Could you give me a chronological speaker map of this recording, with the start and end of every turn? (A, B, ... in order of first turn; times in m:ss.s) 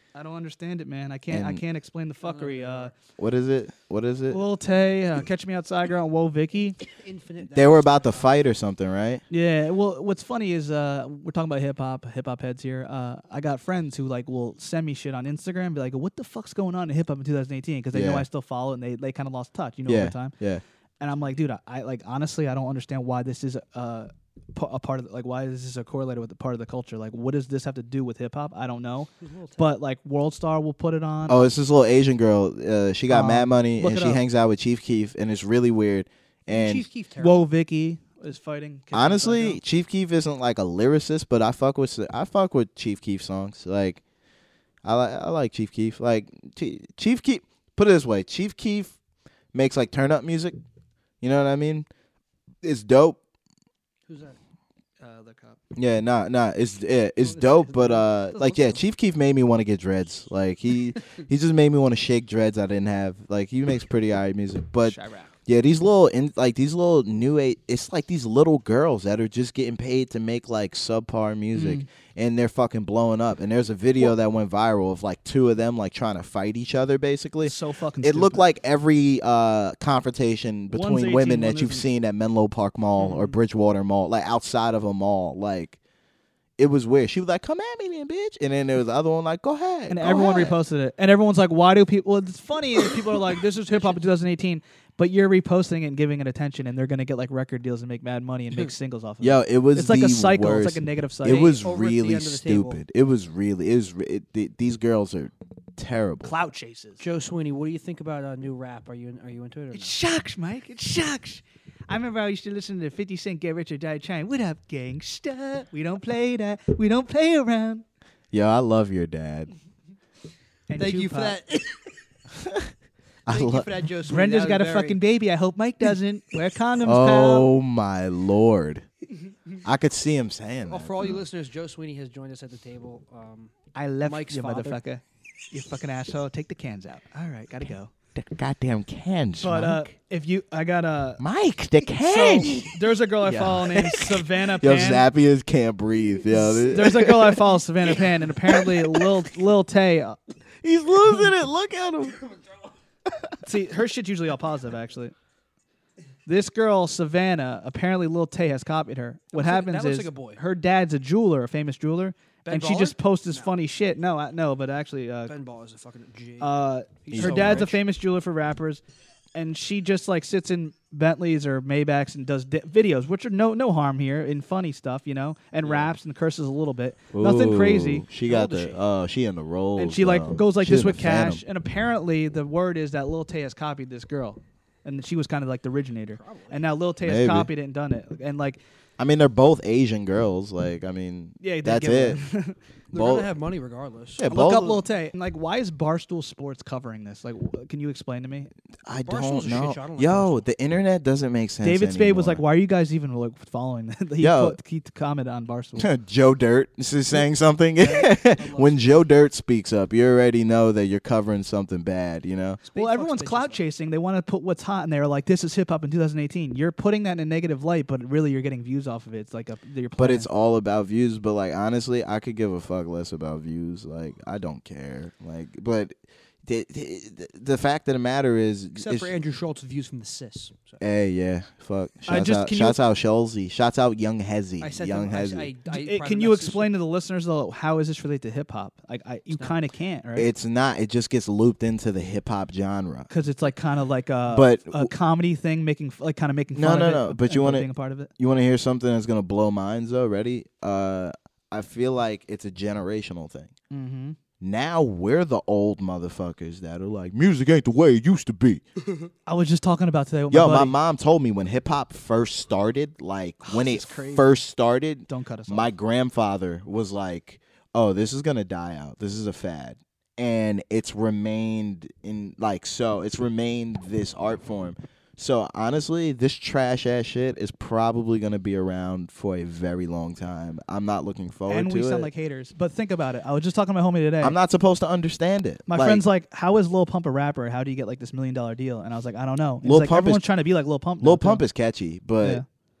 0:00.1-0:02.9 A
0:01.3-0:01.6 B
0:02.2-0:02.9 C
0:03.2-0:04.4 B
0:04.3-0:06.8 A
0:06.9-0:08.4 C
0:07.4-0:09.2 B
0:09.3-0:20.3 A
0:17.9-0:18.2 B
0:19.9-0:20.6 B
0:21.0-0:31.4 A
0:29.2-0:29.7 C
0:31.3-0:36.8 B
0:33.1-0:34.2 A
0:36.5-0:37.4 C
0:37.2-0:39.6 A
0:38.9-0:44.0 B
0:44.8-0:48.9 B
0:49.5-0:50.6 B
0:51.2-0:51.9 B
0:52.6-0:53.2 B
0:54.1-0:54.4 C
0:55.0-0:55.6 A
0:55.7-1:25.8 B
0:57.2-0:58.8 C
1:04.8-1:05.3 A
1:11.5-1:11.9 A
1:17.4-1:18.4 A
1:20.7-1:21.8 A
1:23.0-1:23.4 A
1:26.6-1:30.6 B
1:29.9-1:41.6 A
1:39.2-1:46.3 B
1:41.6-1:42.8 C
1:46.2-1:47.0 A
1:47.0-1:50.0 C
1:49.7-1:57.8 A
1:58.3-1:59.5 B
2:00.7-2:01.4 A
2:00.8-2:01.9 C
2:02.4-2:02.7 B
2:03.2-2:03.7 B
2:03.3-2:05.0 C
2:04.0-2:07.5 A
2:06.8-2:08.8 B
2:09.6-2:11.2 B
2:10.6-2:14.8 C
2:13.7-2:17.9 A
2:18.1-2:19.9 B
2:19.4-2:21.2 A
2:21.2-2:29.1 B
2:21.9-2:25.1 A
2:26.2-2:30.2 A
2:30.6-2:32.4 B
2:33.4-2:35.1 A
2:36.2-2:45.3 A
2:39.3-2:40.4 C
2:42.4-2:43.5 C
2:45.3-2:46.5 C
2:46.4-2:48.8 A
2:47.1-2:47.8 C
2:47.1-2:47.7 B
2:49.3-2:58.8 A
2:55.6-2:55.9 C
2:57.1-3:01.4 B
2:59.8-3:08.6 A
3:06.1-3:06.6 C
3:07.0-3:07.5 B
3:09.0-3:12.2 B
3:11.4-3:12.6 A
3:12.9-3:14.2 C
3:12.9-3:13.3 B
3:14.2-3:14.8 B
3:14.2-3:18.5 A
3:18.8-3:22.4 B
3:19.0-3:20.4 C
3:21.6-3:25.9 A
3:24.2-3:24.6 B
3:25.8-3:32.6 B
3:27.8-3:28.8 C
3:32.6-3:33.6 C
3:32.8-3:40.3 A
3:40.0-3:49.1 B
3:48.7-3:50.8 C
3:50.8-3:55.5 B
3:52.1-3:52.8 A
3:54.6-3:56.7 C
3:55.7-4:00.3 A
3:59.3-3:59.6 C
4:00.2-4:03.1 B
4:03.1-4:08.1 A
4:04.3-4:04.9 B
4:06.5-4:07.7 B
4:08.2-4:13.5 B
4:13.7-4:14.2 A
4:14.4-4:18.6 B
4:19.2-4:20.7 A
4:20.3-4:42.1 B
4:23.4-4:24.3 A
4:25.1-4:25.7 A
4:41.5-4:44.4 A
4:44.2-4:46.0 B
4:45.7-4:51.4 A
4:49.6-4:50.2 B
4:51.0-4:52.4 B